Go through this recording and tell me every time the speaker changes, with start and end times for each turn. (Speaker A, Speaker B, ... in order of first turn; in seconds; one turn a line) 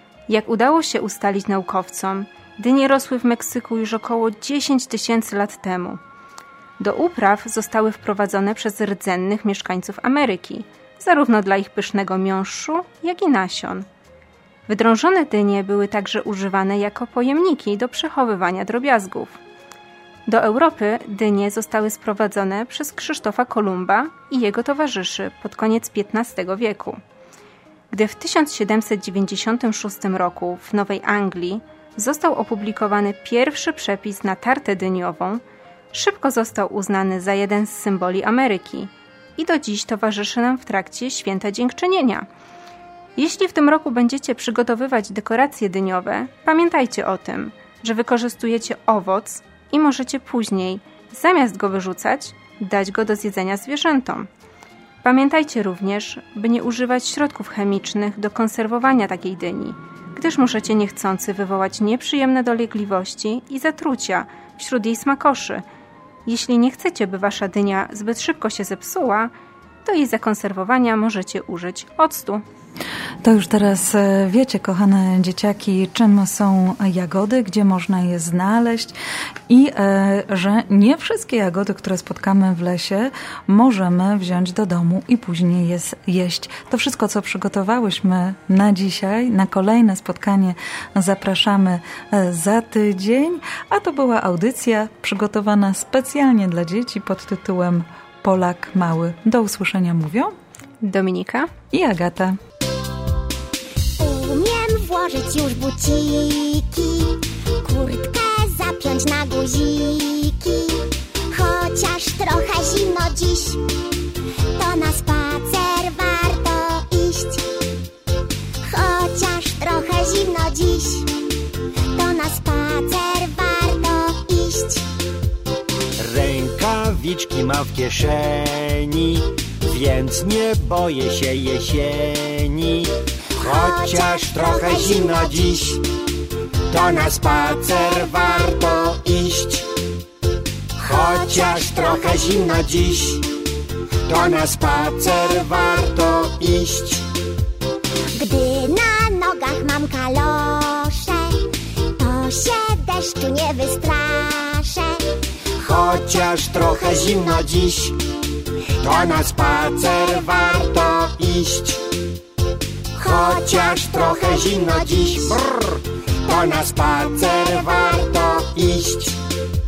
Speaker A: 0.3-6.0
Speaker A: 6.8-13.9
Speaker A: 14.7-19.4
Speaker A: 20.2-27.0
Speaker A: 27.9-42.3
Speaker A: 43.1-54.3
Speaker A: 55.0-65.6
Speaker A: 66.2-69.3
Speaker A: 69.8-72.4
Speaker B: 73.2-79.0
Speaker B: 79.5-100.3
Speaker A: 100.8-101.5
Speaker B: 101.7-102.4
Speaker C: 104.0-113.7
Speaker C: 114.5-117.5
Speaker C: 118.6-121.2
Speaker C: 121.9-124.9
Speaker D: 126.0-135.9
Speaker C: 133.4-135.5
Speaker D: 136.7-139.7
Speaker C: 140.8-143.0
Speaker D: 140.9-143.3
Speaker D: 144.1-147.1
Speaker C: 145.4-145.8
Speaker C: 148.1-155.0
Speaker D: 155.6-158.0
Speaker C: 156.6-157.3
Speaker D: 158.8-161.9
Speaker C: 163.0-165.3
Speaker D: 163.1-165.8
Speaker C: 166.2-168.2
Speaker D: 166.4-169.2